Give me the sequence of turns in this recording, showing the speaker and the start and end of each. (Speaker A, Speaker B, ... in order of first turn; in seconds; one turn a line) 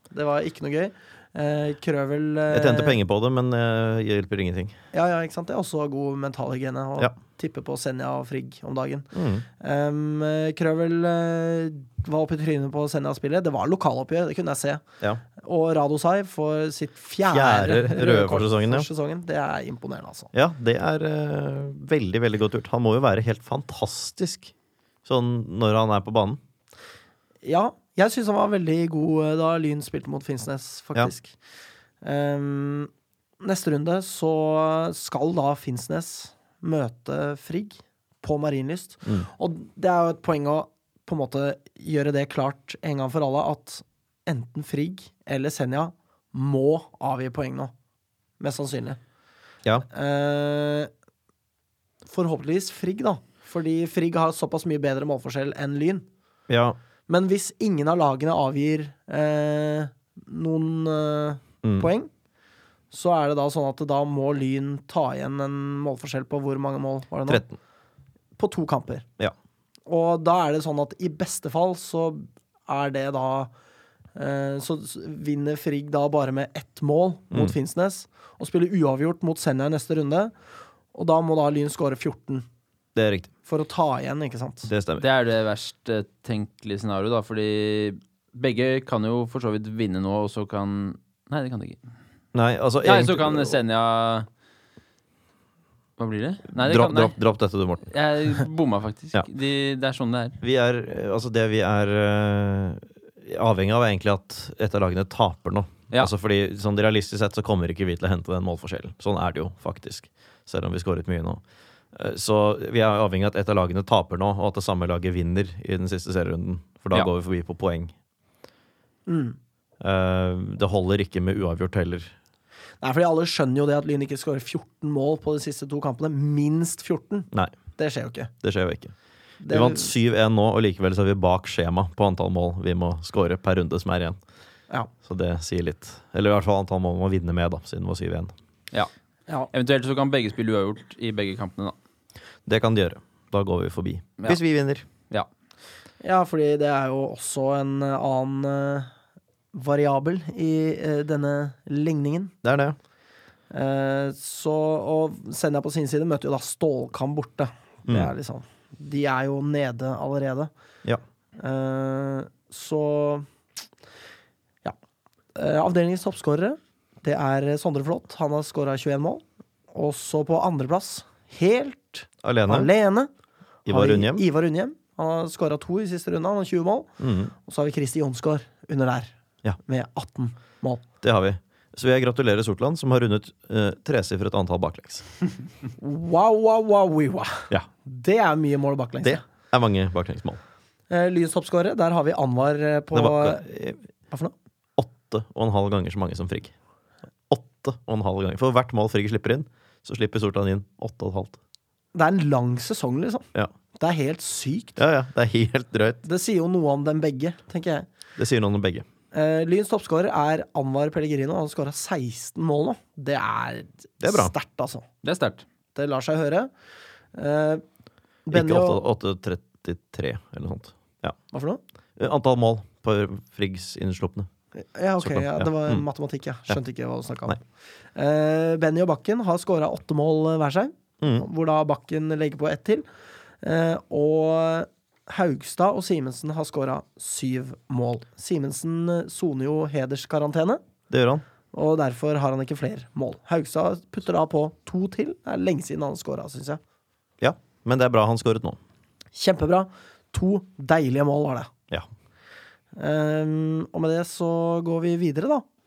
Speaker A: 0.1-3.0
Speaker B: 2.5-4.8
Speaker A: 4.9-14.8
Speaker B: 9.1-9.4
Speaker A: 15.4-20.3
Speaker B: 17.2-18.9
Speaker B: 20.3-24.5
Speaker B: 25.1-26.4
Speaker A: 27.4-31.4
Speaker A: 32.0-32.9
Speaker A: 33.4-47.7
Speaker A: 48.4-49.0
Speaker A: 49.9-50.9
Speaker A: 52.1-56.1
Speaker B: 56.5-56.8
Speaker A: 57.1-62.1
Speaker B: 61.6-61.9
Speaker A: 62.9-67.4
Speaker B: 67.3-67.6
Speaker A: 68.4-69.1
Speaker A: 69.9-73.5
Speaker A: 74.2-80.3
Speaker A: 80.9-82.5
Speaker B: 83.0-83.3
Speaker A: 83.5-84.7
Speaker B: 84.7-85.0
Speaker C: 85.0-91.8
Speaker B: 92.3-93.6
Speaker C: 92.8-94.3
Speaker C: 96.0-97.2
Speaker B: 96.6-97.9
Speaker C: 97.9-100.4
Speaker B: 100.4-111.4
Speaker B: 111.9-117.9
Speaker A: 119.1-119.4
Speaker B: 119.8-122.1
Speaker A: 122.8-128.3
Speaker B: 128.4-128.9
Speaker A: 129.4-129.9
Speaker B: 129.5-134.2
Speaker B: 135.0-138.3
Speaker C: 139.5-141.8
Speaker B: 142.5-144.9
Speaker A: 146.0-148.9
Speaker A: 149.5-152.3
Speaker B: 152.4-152.8
Speaker A: 153.5-160.5
Speaker B: 157.9-158.1
Speaker A: 161.4-163.3
Speaker A: 165.3-173.1
Speaker B: 172.2-172.7
Speaker B: 173.7-174.2
Speaker A: 173.7-176.9
Speaker B: 177.0-177.3
Speaker A: 177.4-179.1
Speaker A: 179.7-180.8
Speaker B: 181.0-185.1
Speaker A: 185.8-189.2
Speaker B: 189.0-190.4
Speaker A: 190.9-193.4
Speaker B: 192.9-193.8
Speaker B: 194.8-196.5
Speaker B: 197.3-201.4
Speaker A: 201.9-204.8
Speaker B: 204.8-206.0
Speaker A: 206.0-207.9
Speaker B: 208.2-208.9
Speaker A: 209.1-214.9
Speaker B: 214.0-214.3
Speaker C: 215.0-215.4
Speaker A: 215.8-216.5
Speaker A: 217.1-217.6
Speaker A: 218.3-218.8
Speaker B: 218.3-221.2
Speaker A: 221.3-221.6
Speaker B: 222.0-224.3
Speaker A: 224.6-227.4
Speaker B: 225.0-225.8
Speaker A: 227.9-232.9
Speaker B: 231.0-231.3
Speaker A: 233.4-240.6
Speaker B: 240.9-241.2
Speaker A: 241.5-246.6
Speaker B: 247.2-248.6
Speaker A: 249.2-251.5
Speaker A: 252.8-255.4